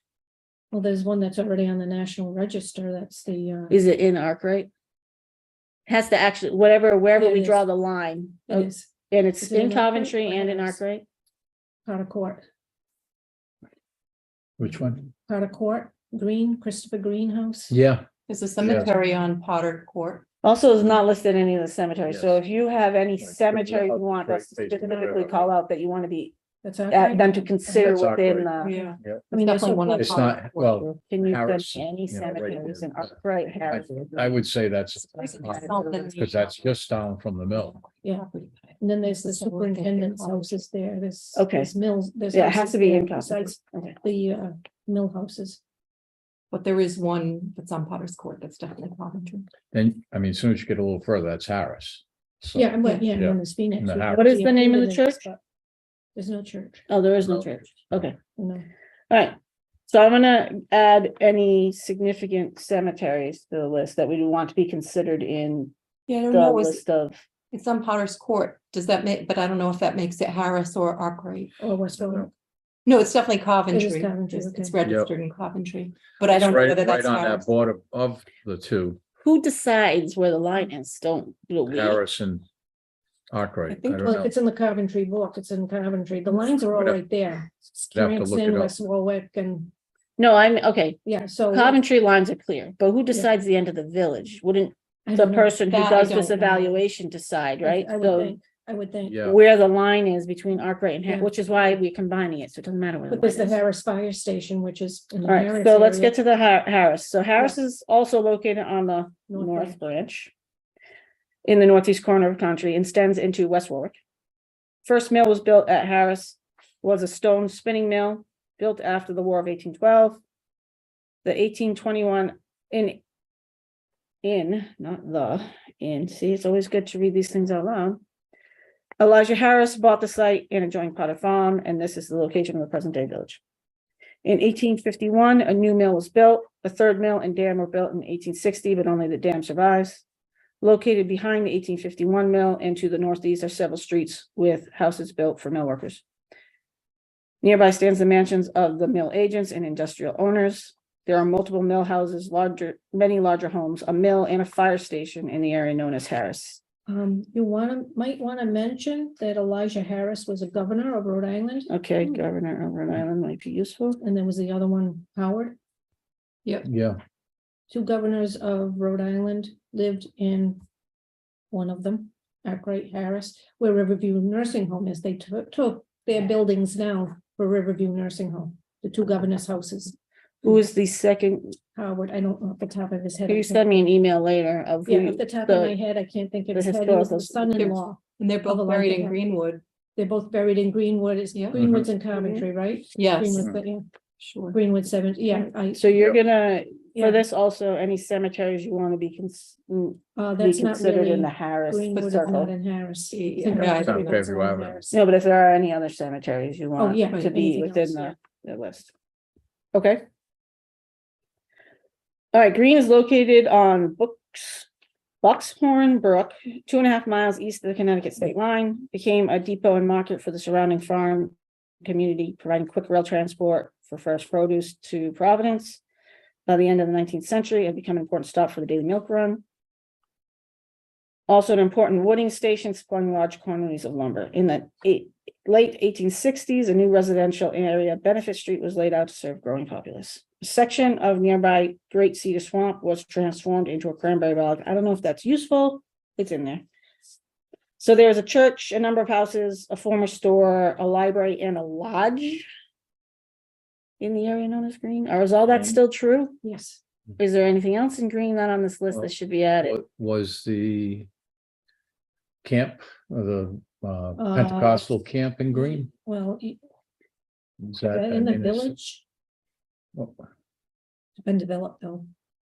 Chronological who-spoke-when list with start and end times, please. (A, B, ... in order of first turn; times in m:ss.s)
0:00.7-0:03.8 A
0:03.7-0:04.7 B
0:05.9-0:11.0 B
0:07.2-0:07.6 A
0:08.5-0:08.9 A
0:09.4-0:10.8 A
0:11.9-0:12.4 A
0:14.6-0:15.1 C
0:15.3-0:17.8 A
0:17.7-0:18.0 C
0:18.3-0:20.2 D
0:18.6-0:18.9 C
0:20.4-0:26.3 B
0:22.1-0:22.4 C
0:23.2-0:25.5 C
0:26.6-0:28.0 A
0:26.9-0:28.8 B
0:27.7-0:29.3 C
0:28.6-0:30.9 D
0:29.3-0:30.3 A
0:30.0-0:33.1 C
0:30.9-0:34.3 B
0:33.7-0:37.8 C
0:35.1-0:36.7 D
0:37.5-0:40.6 D
0:38.8-0:45.6 A
0:41.4-0:41.7 B
0:42.3-0:44.0 B
0:46.5-0:49.5 D
0:49.7-0:54.3 C
0:52.6-0:55.4 A
0:54.1-0:55.2 B
0:56.2-0:56.9 A
0:56.9-0:58.2 B
0:57.2-0:58.1 C
0:58.4-0:58.7 A
0:59.1-0:59.4 B
0:59.9-1:05.7 B
1:06.1-1:06.8 D
1:06.3-1:07.2 B
1:07.5-1:11.5 D
1:11.6-1:12.3 A
1:12.0-1:12.3 C
1:12.9-1:17.5 D
1:13.7-1:14.8 A
1:14.8-1:15.1 C
1:16.3-1:19.0 C
1:19.2-1:22.0 B
1:21.7-1:22.4 C
1:23.3-1:24.3 C
1:23.7-1:24.2 D
1:24.0-1:29.7 A
1:26.7-1:27.0 C
1:27.9-1:28.7 C
1:30.2-1:31.0 B
1:31.1-1:31.8 A
1:31.5-1:38.4 B
1:35.1-1:36.8 A
1:35.7-1:36.4 D
1:37.6-1:39.2 A
1:39.0-1:39.4 C
1:39.2-1:43.6 B
1:41.1-1:41.8 A
1:43.1-1:46.1 A
1:45.2-1:50.3 B
1:49.3-1:49.8 A
1:51.4-1:54.0 B
1:54.8-2:00.2 B
2:01.2-2:03.0 B
2:04.2-2:08.0 B
2:09.0-2:13.4 B
2:14.2-2:20.0 B
2:20.6-2:26.0 B
2:27.4-2:36.6 B
2:36.9-2:42.2 A
2:41.7-2:44.0 B
2:44.0-2:45.6 A
2:46.6-2:47.0 C
2:47.7-2:50.6 A
2:51.5-3:00.6 A
3:00.4-3:01.6 B
3:01.8-3:03.8 A
3:03.3-3:05.8 B
3:04.9-3:09.2 A
3:06.5-3:07.8 B
3:07.6-3:09.6 D
3:10.0-3:13.9 A
3:11.4-3:11.6 D
3:11.5-3:11.9 C
3:12.1-3:12.5 B
3:13.0-3:13.5 D
3:14.2-3:14.6 D
3:14.5-3:15.9 A
3:15.8-3:22.5 B
3:17.0-3:17.2 A
3:20.2-3:24.9 A
3:22.0-3:22.5 D
3:23.1-3:24.2 D
3:23.8-3:24.9 C
3:24.9-3:28.9 B
3:26.8-3:28.2 A
3:29.7-3:30.0 B
3:32.3-3:34.7 B
3:35.2-3:45.8 B
3:46.5-3:49.4 B
3:51.3-4:06.6 B
4:07.8-4:12.5 B
4:14.0-4:16.4 B
4:15.5-4:15.8 C
4:16.4-4:16.8 A
4:17.2-4:19.8 B
4:19.6-4:21.1 C
4:22.4-4:25.9 C
4:24.2-4:24.9 A
4:25.5-4:26.6 A
4:27.6-4:28.7 C
4:27.9-4:29.0 A
4:30.0-4:30.3 C
4:31.2-4:32.1 A